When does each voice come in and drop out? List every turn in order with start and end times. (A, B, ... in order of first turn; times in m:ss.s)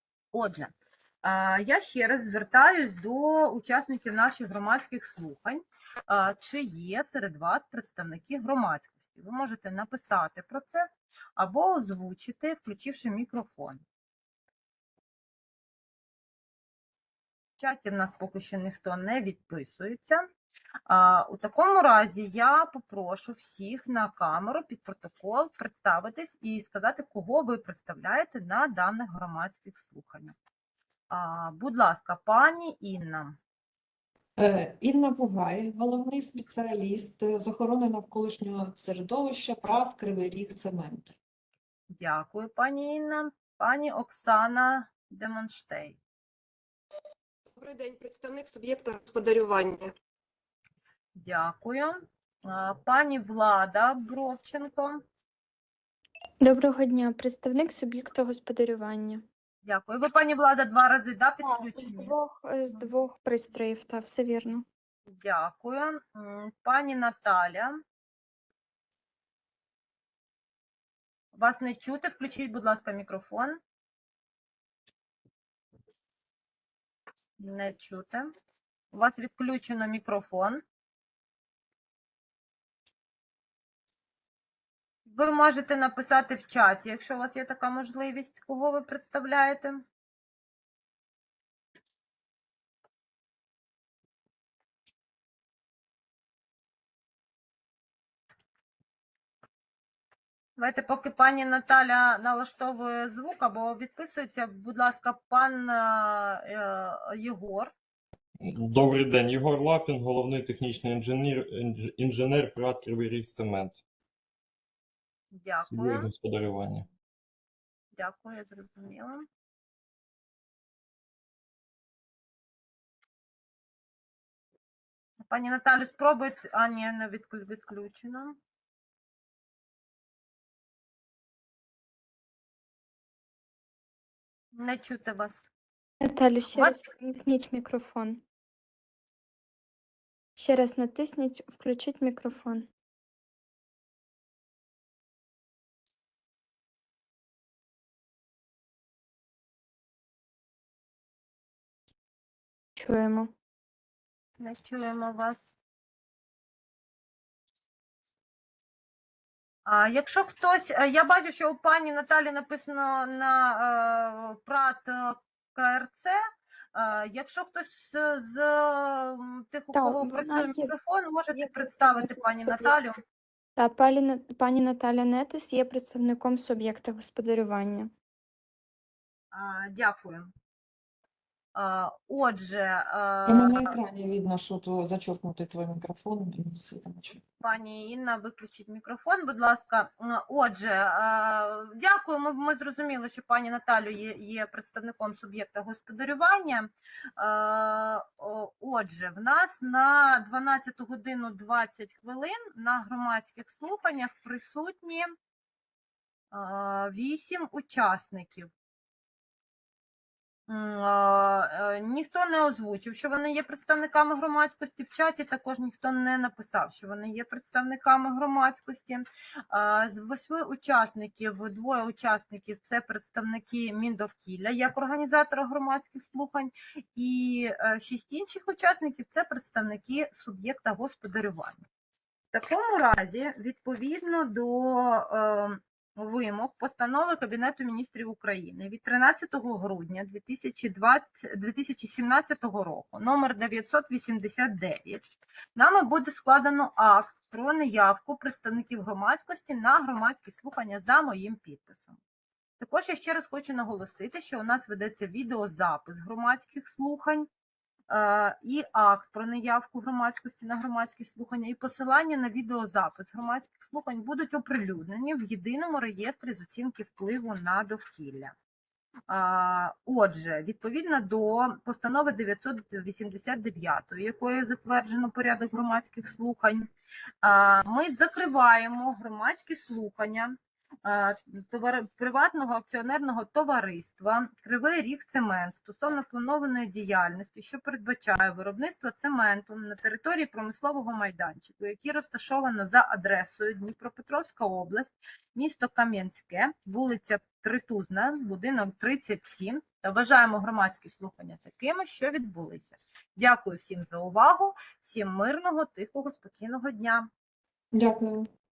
0:00.3-0:13.8 A
0:17.6-0:20.3 A
0:20.9-0:30.4 A
0:31.1-0:33.4 A
0:34.4-0:41.2 B
0:41.9-0:46.0 A
0:47.6-0:49.9 C
0:51.2-0:55.0 A
0:56.4-0:59.2 D
0:59.6-1:02.1 A
1:01.4-1:04.7 D
1:05.1-1:07.8 A
1:11.4-1:13.6 A
1:17.4-1:18.3 A
1:18.9-1:20.6 A
1:25.1-1:29.8 A
1:40.6-1:47.7 A
1:48.4-1:53.8 E
1:55.3-1:56.1 A
1:55.7-1:56.9 E
1:58.0-1:59.3 A
2:05.3-2:08.4 A
2:14.5-2:15.5 A
2:16.0-2:18.2 D
2:16.5-2:16.9 A
2:20.4-2:22.7 D
2:32.8-2:33.3 D
2:34.4-2:35.6 A
2:39.7-2:46.2 A
2:46.8-2:53.0 A
2:49.7-2:50.7 D
2:51.4-2:52.1 D
2:53.6-2:57.9 D
2:59.3-3:00.3 A
3:01.6-3:03.8 A
3:03.3-3:07.2 B
3:07.4-3:25.1 A
3:26.3-3:28.5 A
3:30.5-3:51.7 A
3:52.3-4:12.0 A
4:12.6-4:17.3 A
4:17.9-4:28.3 A
4:29.1-4:36.7 A
4:37.2-5:07.1 A
5:07.7-5:08.3 B